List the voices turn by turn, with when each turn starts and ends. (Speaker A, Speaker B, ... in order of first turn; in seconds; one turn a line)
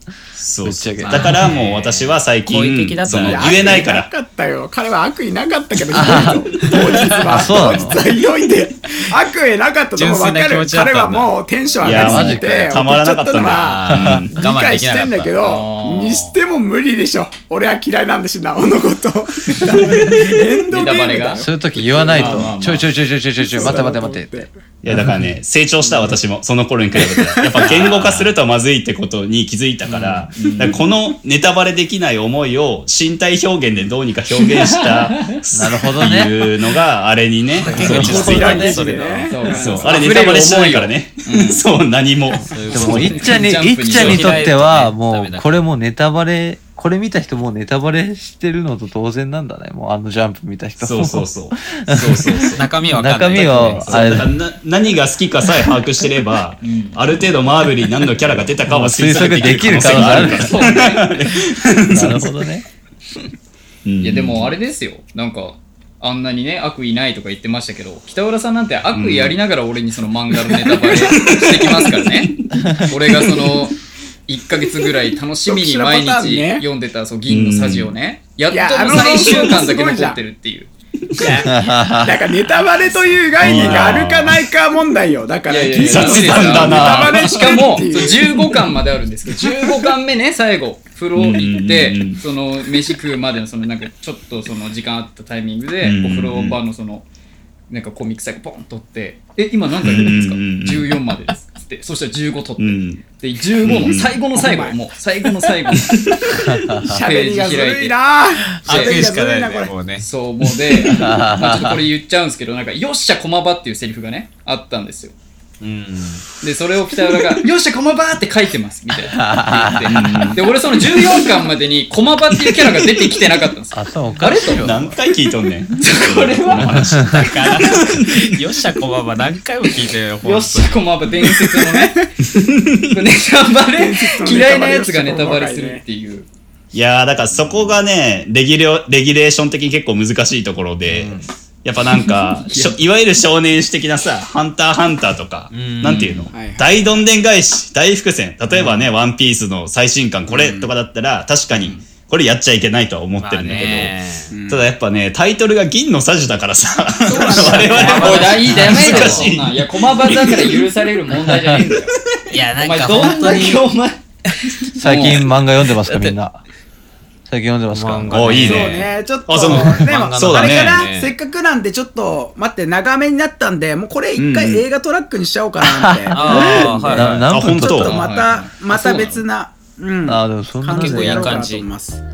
Speaker A: 0.3-4.1
Speaker B: 0.6-1.5
Speaker C: 1.0-1.5
Speaker D: 1.4-3.8
Speaker E: 3.1-22.6
Speaker B: 5.9-8.0
Speaker A: 6.7-6.9
Speaker D: 9.9-11.3
Speaker A: 11.8-14.4
Speaker B: 11.8-12.8
Speaker D: 13.5-15.4
Speaker B: 13.9-14.2
Speaker C: 15.4-16.4
Speaker A: 19.7-20.6
Speaker C: 20.7-22.9
Speaker B: 21.4-25.0
Speaker E: 23.4-24.5
Speaker A: 24.8-38.8
Speaker E: 25.8-26.1
Speaker E: 27.0-27.8
Speaker D: 27.6-28.3
Speaker B: 29.9-30.4
Speaker C: 30.3-30.8
Speaker C: 34.4-35.4
Speaker B: 35.5-36.4
Speaker E: 37.7-40.1
Speaker D: 37.7-39.9
Speaker B: 37.7-38.9
Speaker C: 39.2-41.6
Speaker A: 39.6-43.3
Speaker D: 42.5-45.6
Speaker B: 42.7-54.4
Speaker C: 42.8-44.5
Speaker A: 50.8-52.7
Speaker D: 52.5-54.2
Speaker A: 53.3-62.3
Speaker C: 56.6-57.1
Speaker B: 58.7-60.5
Speaker C: 59.9-61.3
Speaker B: 61.9-62.6
Speaker A: 63.8-64.5
Speaker C: 64.0-80.7
Speaker A: 68.9-69.4
Speaker A: 70.3-72.2
Speaker B: 72.5-72.8
Speaker A: 72.9-73.5
Speaker E: 75.5-76.7
Speaker A: 77.3-77.9
Speaker E: 78.5-80.2
Speaker E: 81.2-88.6
Speaker B: 81.4-82.1
Speaker C: 83.4-83.9
Speaker A: 83.4-84.4
Speaker C: 85.5-97.0
Speaker A: 85.8-87.8
Speaker A: 91.2-92.2
Speaker A: 95.8-96.6
Speaker C: 97.7-106.0
Speaker A: 99.8-101.0
Speaker A: 102.6-103.0
Speaker A: 103.6-104.1
Speaker E: 104.3-104.8
Speaker A: 105.7-106.5
Speaker B: 106.4-106.9
Speaker E: 106.7-109.8
Speaker C: 107.0-108.0
Speaker D: 108.6-110.0
Speaker C: 108.6-109.1
Speaker C: 110.0-115.1
Speaker A: 110.7-111.1
Speaker B: 110.9-111.8
Speaker D: 115.6-116.2
Speaker C: 116.4-124.8
Speaker B: 119.1-120.3
Speaker A: 119.9-120.5
Speaker B: 123.7-124.9
Speaker A: 124.6-128.3
Speaker C: 125.7-127.5
Speaker D: 127.1-130.8
Speaker C: 130.2-132.1
Speaker A: 132.2-133.0
Speaker C: 132.9-136.3
Speaker E: 133.7-135.8
Speaker A: 136.7-153.9
Speaker B: 140.9-141.3
Speaker C: 142.0-142.8
Speaker D: 145.5-146.2
Speaker C: 145.8-146.3
Speaker E: 146.3-146.8
Speaker E: 150.3-150.7
Speaker D: 153.2-154.3
Speaker E: 154.3-154.7
Speaker A: 154.5-160.6
Speaker E: 157.0-158.3
Speaker C: 157.1-162.0
Speaker D: 157.6-159.3
Speaker B: 161.2-161.6
Speaker D: 162.3-163.6
Speaker C: 162.6-164.0
Speaker E: 163.0-163.5
Speaker C: 164.6-165.3
Speaker B: 164.8-166.4
Speaker D: 165.8-166.2
Speaker B: 167.3-168.4
Speaker D: 167.7-168.9
Speaker A: 168.1-170.9
Speaker E: 168.4-182.0
Speaker D: 169.4-171.1
Speaker A: 174.2-174.7
Speaker B: 175.6-177.9
Speaker D: 176.1-177.3
Speaker C: 176.8-177.3
Speaker A: 177.3-178.0
Speaker C: 177.8-179.2
Speaker B: 180.0-181.4
Speaker D: 180.8-181.7